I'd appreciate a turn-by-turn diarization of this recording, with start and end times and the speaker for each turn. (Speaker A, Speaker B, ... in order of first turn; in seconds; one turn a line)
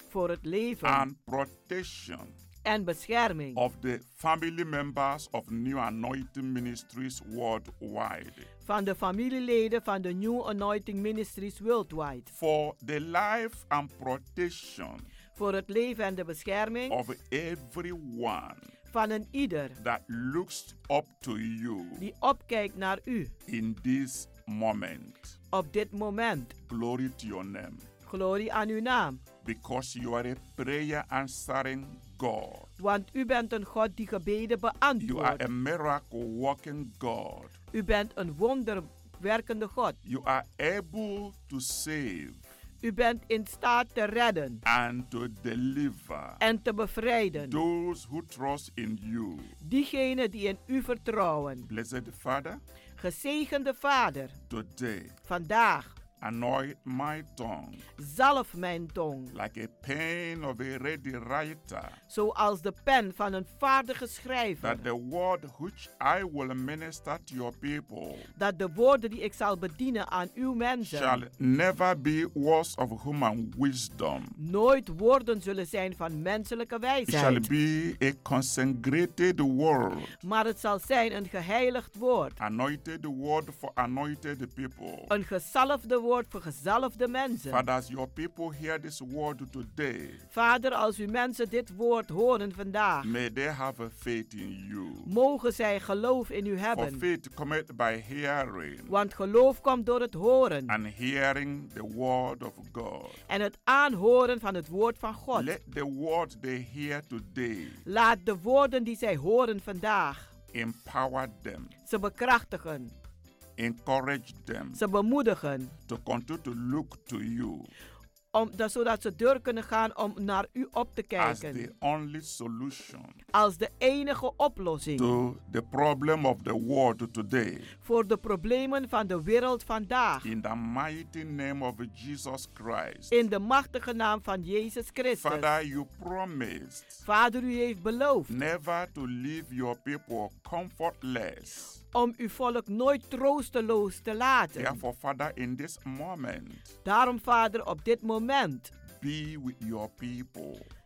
Speaker A: 0.1-1.1
Speaker B: 0.8-2.4
Speaker A: 2.6-3.6
Speaker B: 3.6-8.5
Speaker A: 8.7-12.3
Speaker B: 12.3-15.1
Speaker A: 15.3-17.0
Speaker B: 16.9-18.7
Speaker A: 18.9-19.8
Speaker B: 19.8-22.1
Speaker A: 22.0-23.3
Speaker B: 23.5-25.4
Speaker A: 25.5-26.6
Speaker B: 26.7-27.9
Speaker A: 28.1-29.2
Speaker B: 29.4-32.7
Speaker A: 32.8-35.4
Speaker B: 35.0-37.5
Speaker A: 37.7-40.0
Speaker B: 40.0-42.4
Speaker A: 42.8-44.6
Speaker B: 44.6-46.4
Speaker A: 46.4-47.6
Speaker B: 47.4-49.5
Speaker A: 49.6-51.7
Speaker B: 51.7-52.6
Speaker A: 53.0-54.4
Speaker B: 54.5-55.1
Speaker A: 55.3-56.0
Speaker B: 56.2-57.9
Speaker A: 58.0-59.3
Speaker B: 59.3-62.0
Speaker A: 62.1-64.8
Speaker B: 64.6-68.3
Speaker A: 68.4-71.2
Speaker B: 70.8-74.4
Speaker A: 74.4-77.5
Speaker B: 77.1-80.2
Speaker A: 80.2-82.4
Speaker B: 82.4-85.1
Speaker A: 85.1-87.6
Speaker B: 87.5-90.2
Speaker A: 90.3-93.1
Speaker B: 93.0-95.1
Speaker A: 95.1-97.0
Speaker B: 96.7-98.9
Speaker A: 98.9-100.8
Speaker B: 100.7-103.2
Speaker A: 103.3-105.5
Speaker B: 105.3-107.8
Speaker A: 107.9-110.3
Speaker B: 110.5-111.7
Speaker A: 111.9-112.9
Speaker B: 113.6-114.8
Speaker A: 114.8-115.7
Speaker B: 115.9-117.7
Speaker A: 118.3-121.7
Speaker B: 121.2-123.2
Speaker A: 123.3-125.1
Speaker B: 125.0-127.7
Speaker A: 127.8-130.3
Speaker B: 130.2-133.1
Speaker A: 133.1-135.5
Speaker B: 135.2-137.0
Speaker A: 137.1-138.3
Speaker B: 138.3-141.8
Speaker A: 141.9-144.8
Speaker B: 144.6-146.7
Speaker A: 146.8-148.7
Speaker B: 148.9-150.7